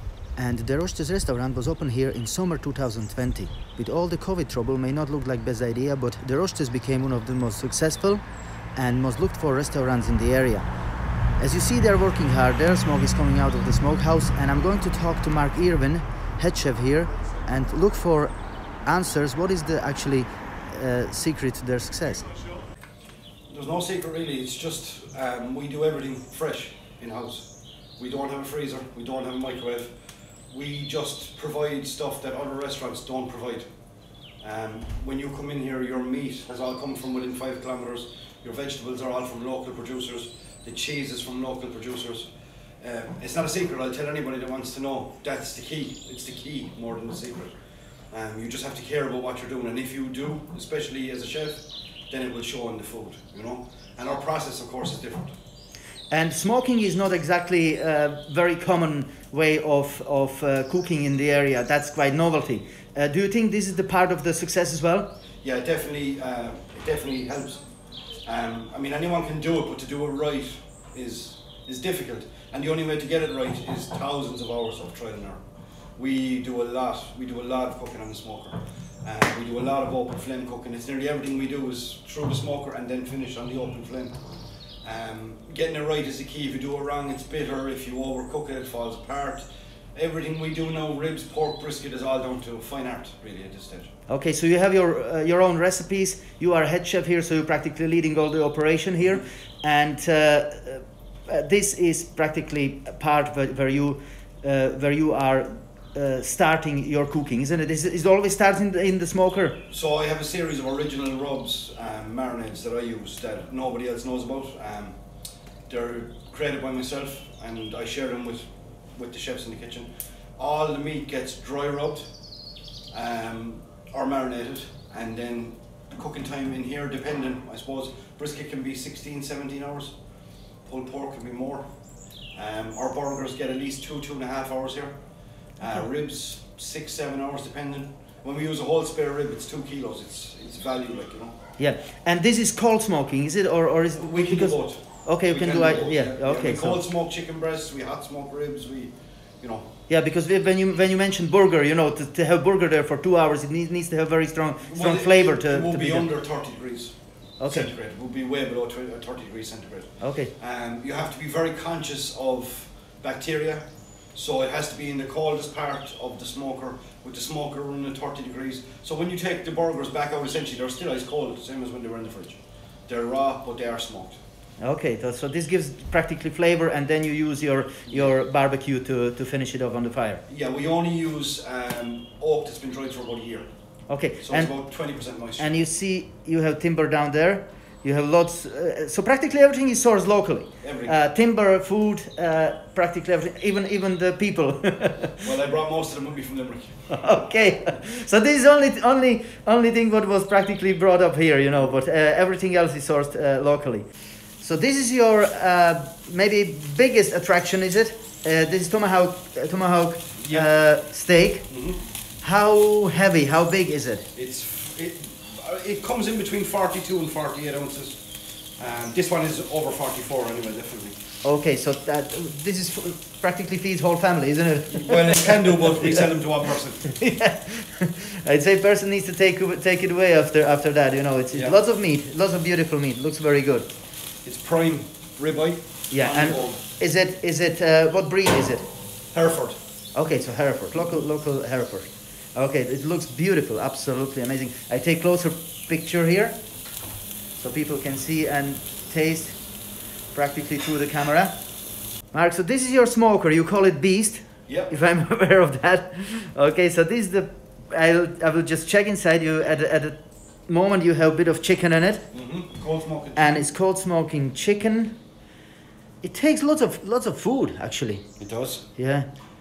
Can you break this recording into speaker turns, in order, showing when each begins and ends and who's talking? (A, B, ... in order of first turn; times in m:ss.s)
0:00.4-0:08.2 A
0:08.8-0:10.7 A
0:11.4-0:18.3 A
0:18.8-0:22.3 A
0:23.5-0:29.9 B
0:30.5-0:33.6 B
0:34.4-0:42.3 B
0:42.8-0:47.5 B
0:48.1-0:55.4 B
0:56.1-1:05.1 A
1:05.4-1:07.6 B
1:08.2-1:15.4 B
1:16.0-1:24.2 B
1:24.8-1:33.9 B
1:34.1-1:49.6 A
1:49.7-1:55.0 B
1:55.7-1:58.4 B
1:58.9-2:02.1 B
2:02.9-2:09.9 B
2:10.6-2:11.6 B
2:12.4-2:14.9 B
2:15.6-2:21.4 B
2:21.6-2:26.8 A
2:24.0-2:29.7 B
2:29.9-2:36.1 A
2:34.6-2:54.2 B
2:37.4-2:37.7 A
2:40.0-2:40.3 A
2:54.6-3:00.2 A
3:00.3-3:03.4 B
3:03.9-3:04.5 A
3:04.2-3:05.5 B
3:05.4-3:15.2 A
3:10.6-3:10.9 B
3:15.2-3:16.8 B
3:16.9-3:23.8 A
3:24.4-3:31.5 A
3:30.2-3:30.5 B
3:31.5-3:31.8 B
3:32.2-3:34.1 A
3:34.1-3:38.0 B
3:38.6-3:41.0 B
3:41.2-3:45.7 A
3:44.7-3:47.0 B
3:46.9-3:53.7 A
3:54.2-3:56.6 B
3:55.9-3:58.6 A
3:59.1-3:59.6 B
3:59.9-4:06.4 A
4:07.4-4:09.4 A
4:10.1-4:11.3 A
4:12.1-4:22.1 A
4:14.5-4:14.7 B
4:22.1-4:23.4 B
4:23.2-4:25.0 A
4:26.0-4:28.0 A
4:28.2-4:28.7 B
4:28.8-4:29.1 A